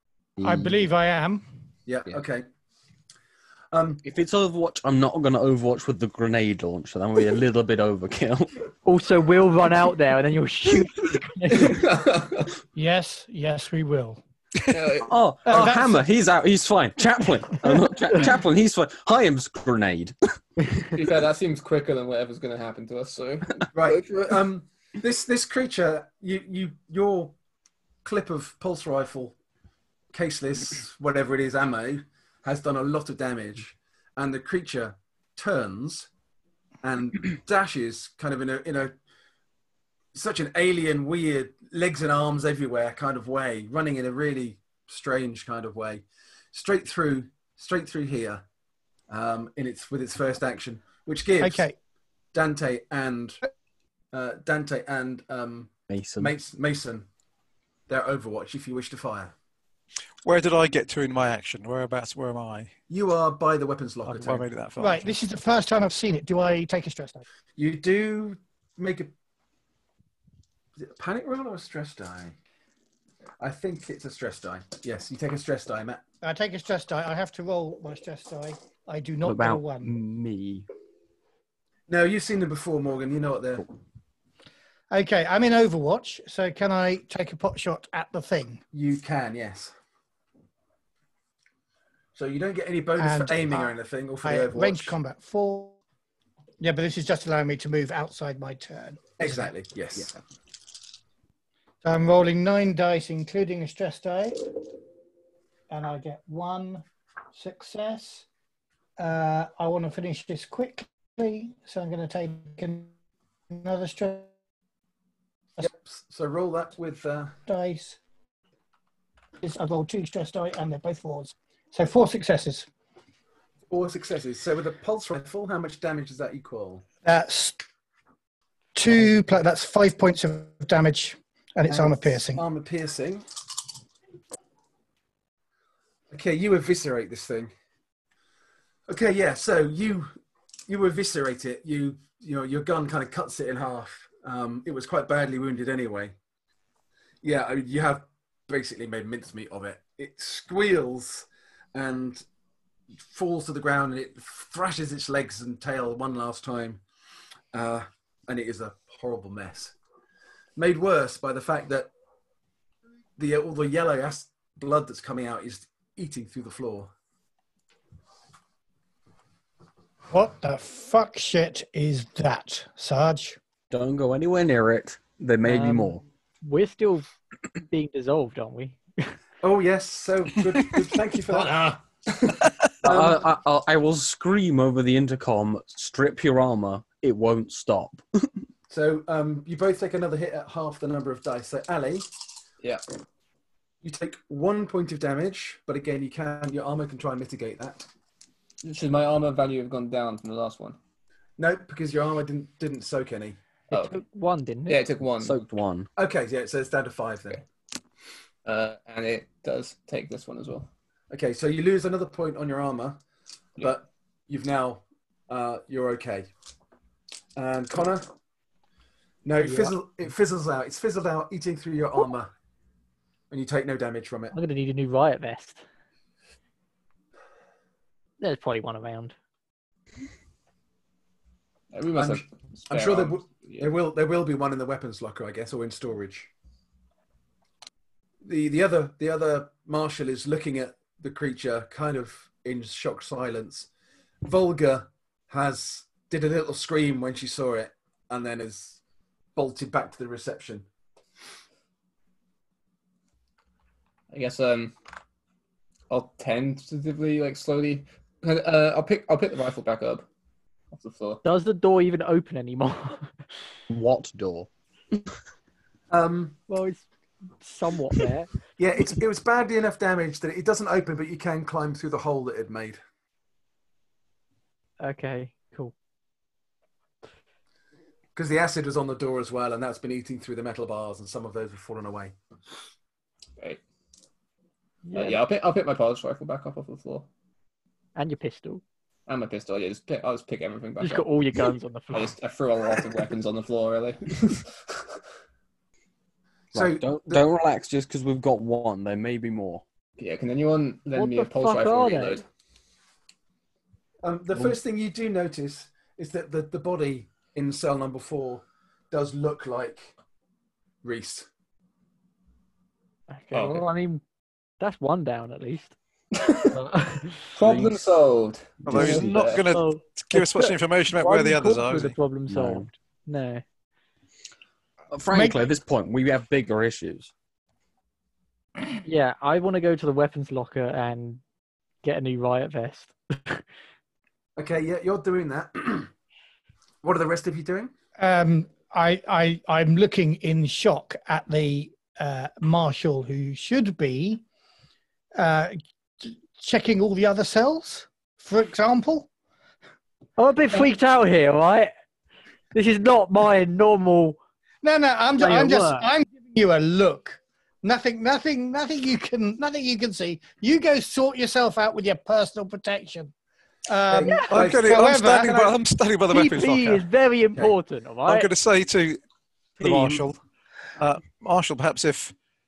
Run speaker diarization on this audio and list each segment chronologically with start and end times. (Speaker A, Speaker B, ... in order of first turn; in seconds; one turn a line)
Speaker A: 0.4-0.9
Speaker B: 0.4-1.5
Speaker C: 1.9-2.5
Speaker C: 3.7-4.0
Speaker A: 4.0-8.7
Speaker D: 8.8-11.8
Speaker E: 11.5-12.6
Speaker B: 12.8-14.2
Speaker E: 14.7-15.1
Speaker A: 15.0-20.2
Speaker B: 15.5-16.0
Speaker E: 20.8-24.3
Speaker C: 23.7-27.3
Speaker C: 28.0-29.4
Speaker C: 30.1-36.1
Speaker C: 36.8-38.9
Speaker C: 40.1-48.4
Speaker C: 49.1-51.7
Speaker B: 51.4-51.8
Speaker C: 52.3-53.4
Speaker C: 54.1-57.1
Speaker A: 55.9-56.3
Speaker C: 57.9-59.3
Speaker F: 60.2-62.7
Speaker C: 62.9-64.5
Speaker F: 64.1-65.2
Speaker B: 64.8-67.2
Speaker C: 67.6-69.1
Speaker C: 70.8-72.3
Speaker C: 73.4-76.0
Speaker B: 76.2-79.9
Speaker A: 79.2-80.7
Speaker C: 81.9-83.7
Speaker B: 84.9-88.6
Speaker C: 88.7-89.7
Speaker C: 92.2-95.0
Speaker B: 93.0-95.8
Speaker B: 96.6-99.5
Speaker C: 99.2-100.2
Speaker B: 101.8-104.5
Speaker B: 105.7-108.3
Speaker B: 109.0-112.9
Speaker B: 113.5-114.3
Speaker C: 115.6-117.4
Speaker B: 117.5-118.0
Speaker B: 119.4-122.7
Speaker C: 123.7-126.8
Speaker B: 127.0-127.6
Speaker B: 128.8-132.4
Speaker C: 131.7-133.3
Speaker C: 136.1-137.5
Speaker C: 138.9-140.1
Speaker C: 140.7-146.1
Speaker C: 147.2-152.2
Speaker C: 153.0-156.8
Speaker C: 157.5-159.7
Speaker C: 160.6-161.9
Speaker C: 163.2-166.9
Speaker B: 170.1-173.4
Speaker A: 173.7-176.0
Speaker D: 175.4-177.1
Speaker D: 177.6-179.1
Speaker C: 179.4-181.8
Speaker A: 182.8-188.3
Speaker C: 182.8-183.2
Speaker C: 188.7-192.1
Speaker C: 193.8-197.9
Speaker E: 198.6-200.8
Speaker C: 201.4-203.4
Speaker D: 203.7-204.8
Speaker E: 203.7-204.0
Speaker E: 204.7-205.3
Speaker A: 205.2-205.9
Speaker C: 206.0-207.4
Speaker E: 208.4-210.7
Speaker C: 211.1-213.0
Speaker C: 213.6-216.3
Speaker C: 217.4-218.1
Speaker C: 219.2-222.3
Speaker D: 219.4-219.7
Speaker C: 223.3-224.3
Speaker D: 224.3-225.6
Speaker D: 228.2-229.2
Speaker E: 231.7-233.7
Speaker C: 232.0-236.3
Speaker C: 238.2-243.7
Speaker C: 244.2-248.8
Speaker C: 249.3-250.7
Speaker E: 254.1-254.8
Speaker E: 255.9-260.1
Speaker E: 260.7-261.2
Speaker D: 261.2-263.1
Speaker A: 263.7-264.5
Speaker C: 265.9-266.4
Speaker D: 266.5-266.9
Speaker D: 267.4-268.3
Speaker C: 268.6-272.8
Speaker D: 274.8-275.7
Speaker C: 278.2-282.1
Speaker D: 284.9-285.2
Speaker E: 284.9-287.1
Speaker D: 288.0-288.6
Speaker E: 289.1-291.1
Speaker D: 290.8-292.1
Speaker E: 291.9-294.6
Speaker A: 296.5-299.6
Speaker C: 296.5-297.2
Speaker E: 300.0-302.2
Speaker D: 301.0-302.2
Speaker C: 304.0-309.9
Speaker A: 304.3-304.6
Speaker C: 310.8-311.3
Speaker D: 313.1-314.0
Speaker E: 313.3-313.6
Speaker D: 314.6-315.8
Speaker E: 316.1-316.6
Speaker D: 316.5-317.3
Speaker E: 317.4-319.4
Speaker A: 317.4-317.8
Speaker F: 318.7-322.0
Speaker A: 318.7-319.1
Speaker D: 319.5-323.4
Speaker A: 322.3-322.7
Speaker A: 324.9-327.1
Speaker B: 325.1-325.4
Speaker D: 328.8-331.2
Speaker D: 331.8-333.4
Speaker C: 334.4-335.9
Speaker C: 336.8-337.7
Speaker B: 338.0-344.2
Speaker B: 345.2-349.1
Speaker D: 350.2-351.7
Speaker D: 352.5-354.2
Speaker B: 354.6-363.1
Speaker D: 355.2-355.9
Speaker B: 363.7-365.4
Speaker C: 363.9-365.6
Speaker F: 364.3-366.9
Speaker D: 366.1-368.3
Speaker F: 368.1-369.0
Speaker F: 369.6-370.2
Speaker C: 369.6-370.0
Speaker F: 370.8-372.1